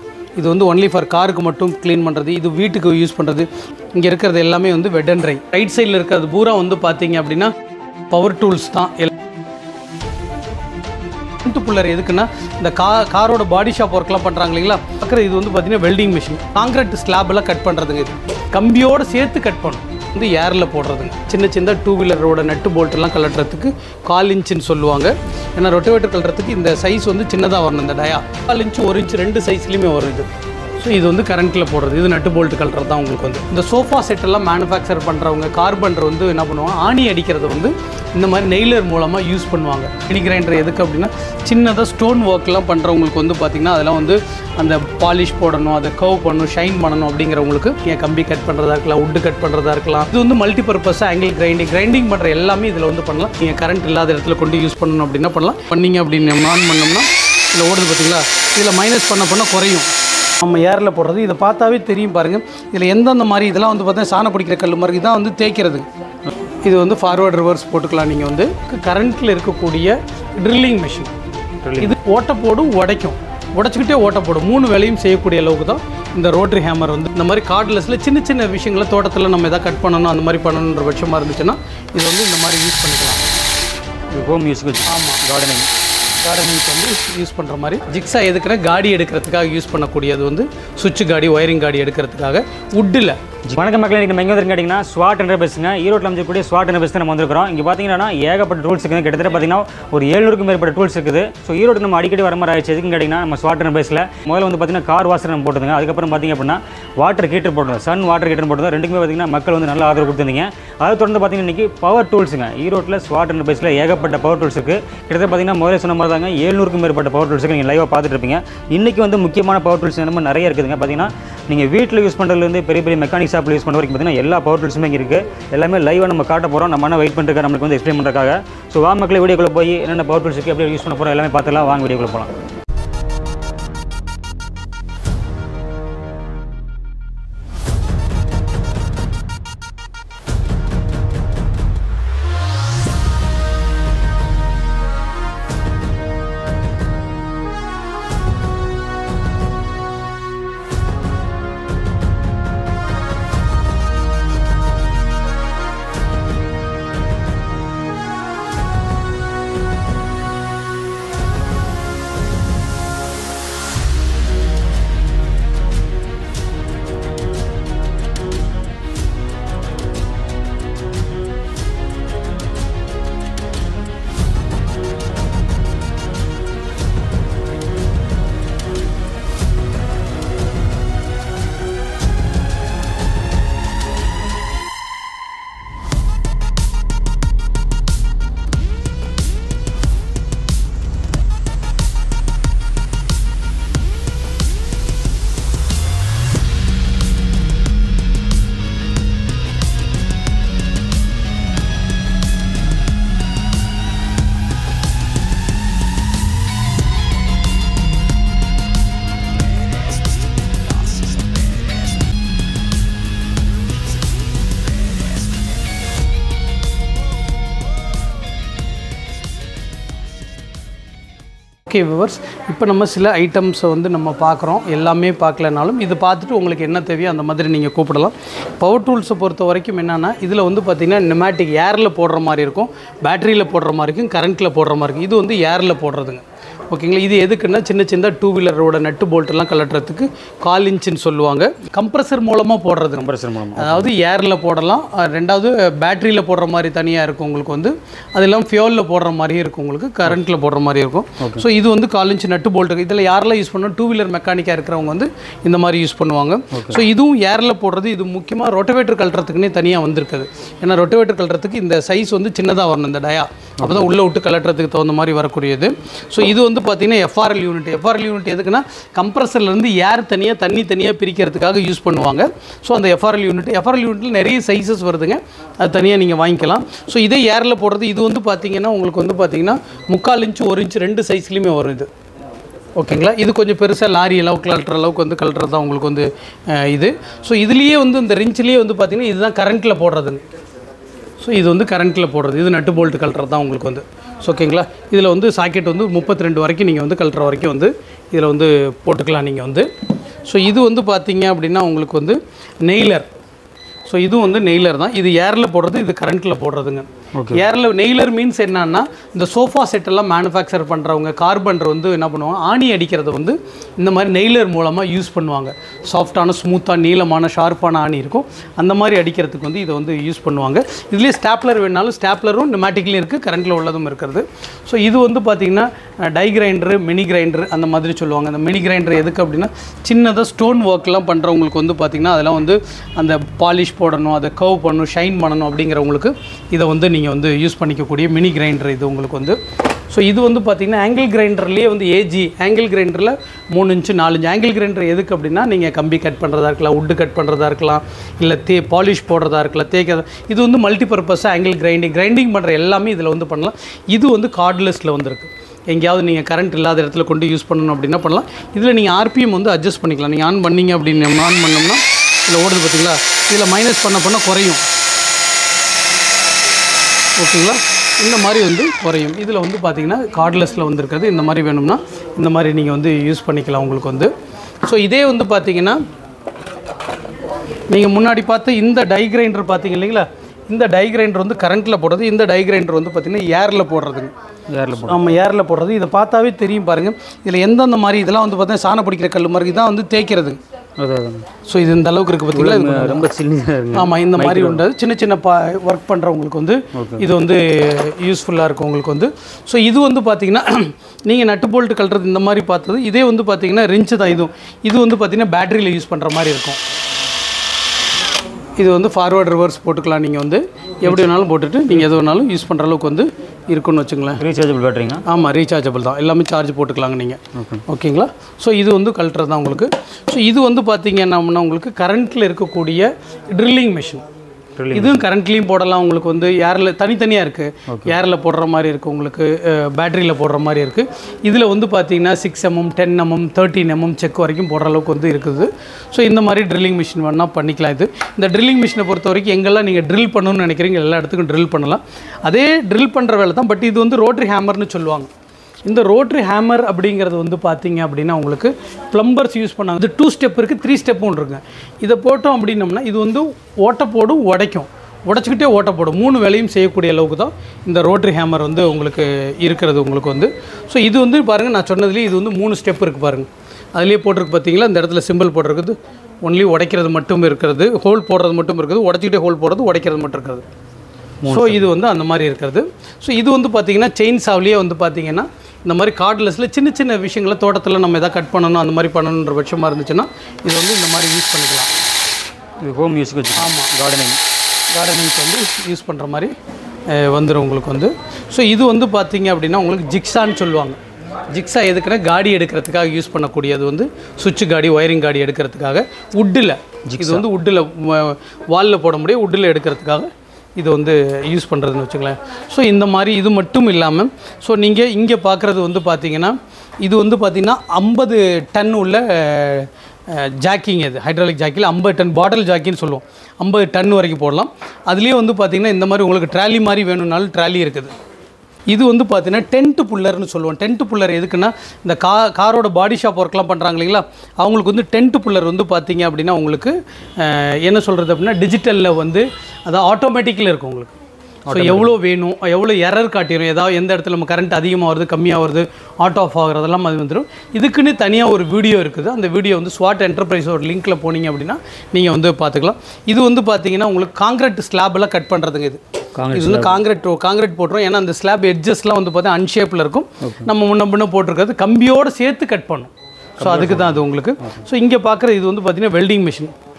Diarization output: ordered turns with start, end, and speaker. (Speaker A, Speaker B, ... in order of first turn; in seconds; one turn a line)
Speaker A: 0.4-7.5
Speaker A: 8.1-9.1
Speaker A: 11.4-65.9
Speaker A: 66.6-71.1
Speaker B: 71.6-72.0
Speaker A: 71.8-83.2
Speaker B: 84.1-85.7
Speaker A: 84.9-85.2
Speaker A: 86.2-93.2
Speaker B: 93.5-132.3
Speaker A: 221.7-281.9
Speaker B: 243.0-243.9
Speaker B: 256.5-256.8
Speaker B: 263.6-263.9
Speaker A: 282.8-290.2
Speaker A: 291.2-299.7
Speaker A: 300.2-303.1
Speaker A: 303.9-339.4
Speaker B: 307.2-307.4
Speaker A: 339.9-364.6
Speaker A: 367.2-374.1
Speaker A: 374.6-375.8
Speaker A: 377.7-384.1
Speaker B: 384.5-385.0
Speaker A: 384.8-390.4
Speaker B: 390.8-391.3
Speaker A: 391.4-393.1
Speaker B: 392.3-394.6
Speaker A: 393.7-406.6
Speaker B: 396.7-397.1
Speaker A: 408.6-414.2
Speaker B: 410.8-411.2
Speaker B: 414.2-415.0
Speaker A: 415.1-424.0
Speaker B: 417.3-417.6
Speaker B: 424.6-425.0
Speaker A: 424.7-445.1
Speaker B: 427.7-428.0
Speaker A: 445.6-470.4
Speaker B: 471.2-471.6
Speaker A: 471.3-481.7
Speaker B: 482.6-484.2
Speaker A: 483.4-483.7
Speaker A: 484.7-486.3
Speaker A: 486.9-490.8
Speaker A: 491.3-517.9
Speaker B: 496.9-497.2
Speaker A: 518.7-531.0
Speaker B: 531.5-532.0
Speaker A: 531.5-556.5
Speaker B: 546.1-546.8
Speaker B: 550.2-550.5
Speaker B: 553.4-554.0